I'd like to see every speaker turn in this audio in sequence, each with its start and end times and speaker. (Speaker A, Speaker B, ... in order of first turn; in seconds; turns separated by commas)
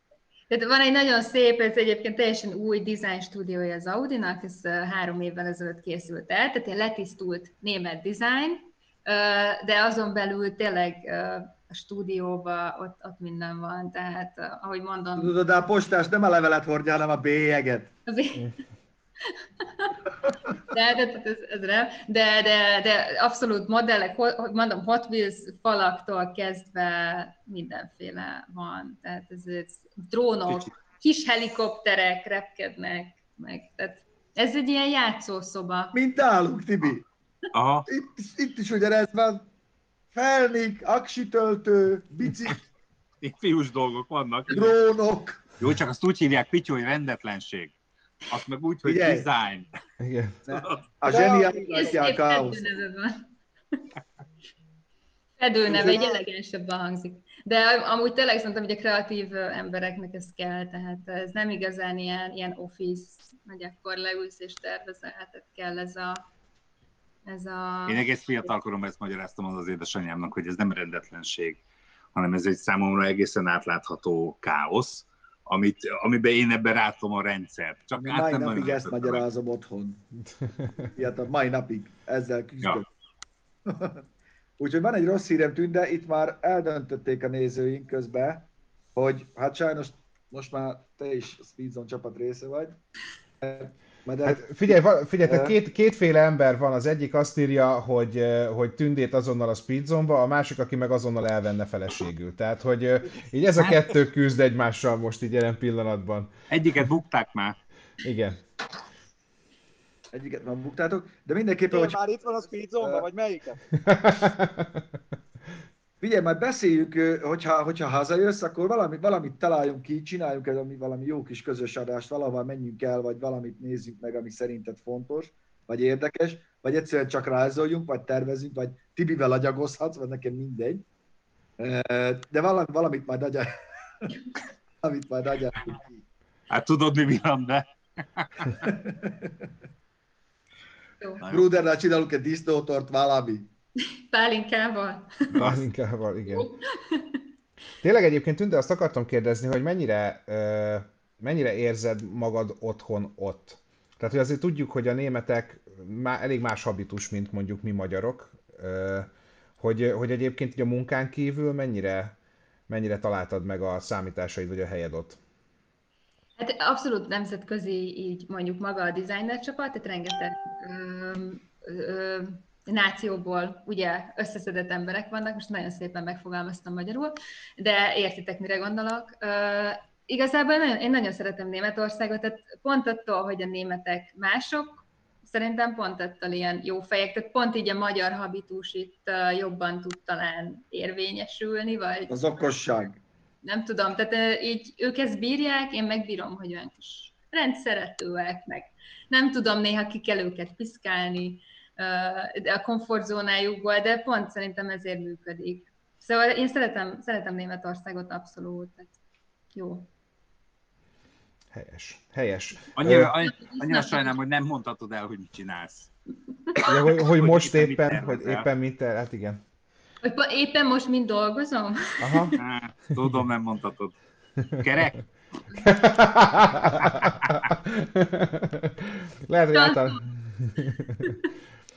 Speaker A: 0.5-15.3, Speaker B: 15.2-17.9, Speaker A: 18.1-18.6, Speaker A: 19.2-20.0, Speaker A: 20.7-36.0, Speaker B: 35.9-37.0, Speaker C: 37.5-37.9, Speaker B: 37.9-39.5, Speaker B: 40.1-42.6, Speaker C: 43.2-44.8, Speaker B: 44.5-45.5, Speaker C: 45.6-47.7, Speaker C: 48.3-49.7, Speaker B: 48.8-49.3, Speaker D: 50.0-50.4, Speaker B: 50.5-52.6, Speaker C: 50.5-50.8, Speaker E: 51.0-51.9, Speaker A: 51.1-53.2, Speaker A: 55.4-66.2, Speaker B: 55.7-56.2, Speaker A: 67.2-68.5, Speaker C: 67.9-71.6, Speaker C: 72.1-79.2, Speaker B: 78.0-80.0, Speaker D: 80.5-80.8, Speaker B: 80.9-82.9, Speaker B: 83.7-84.0, Speaker B: 84.6-92.8, Speaker B: 93.4-95.5, Speaker D: 94.2-106.3, Speaker C: 106.5-107.6, Speaker D: 108.0-108.4, Speaker B: 110.1-112.0, Speaker E: 111.7-113.6, Speaker B: 112.8-113.1, Speaker D: 113.8-114.7, Speaker B: 116.0-130.8, Speaker B: 131.6-134.1, Speaker B: 134.8-136.0, Speaker C: 136.5-138.6, Speaker B: 138.6-139.3, Speaker C: 141.2-141.5, Speaker B: 141.2-143.5, Speaker A: 144.1-145.3, Speaker D: 145.3-146.5, Speaker A: 146.2-147.2, Speaker D: 147.8-162.2, Speaker D: 162.7-165.2, Speaker A: 166.4-192.2, Speaker B: 192.1-193.0, Speaker A: 193.4-208.9, Speaker A: 209.5-209.9, Speaker D: 211.5-213.1, Speaker C: 212.7-215.9, Speaker A: 213.2-214.1, Speaker D: 216.6-219.4, Speaker C: 217.0-218.5, Speaker A: 220.0-222.4, Speaker D: 222.0-222.3, Speaker C: 222.4-223.9, Speaker C: 224.5-225.0, Speaker D: 225.6-231.1, Speaker C: 226.8-227.3, Speaker A: 229.5-230.0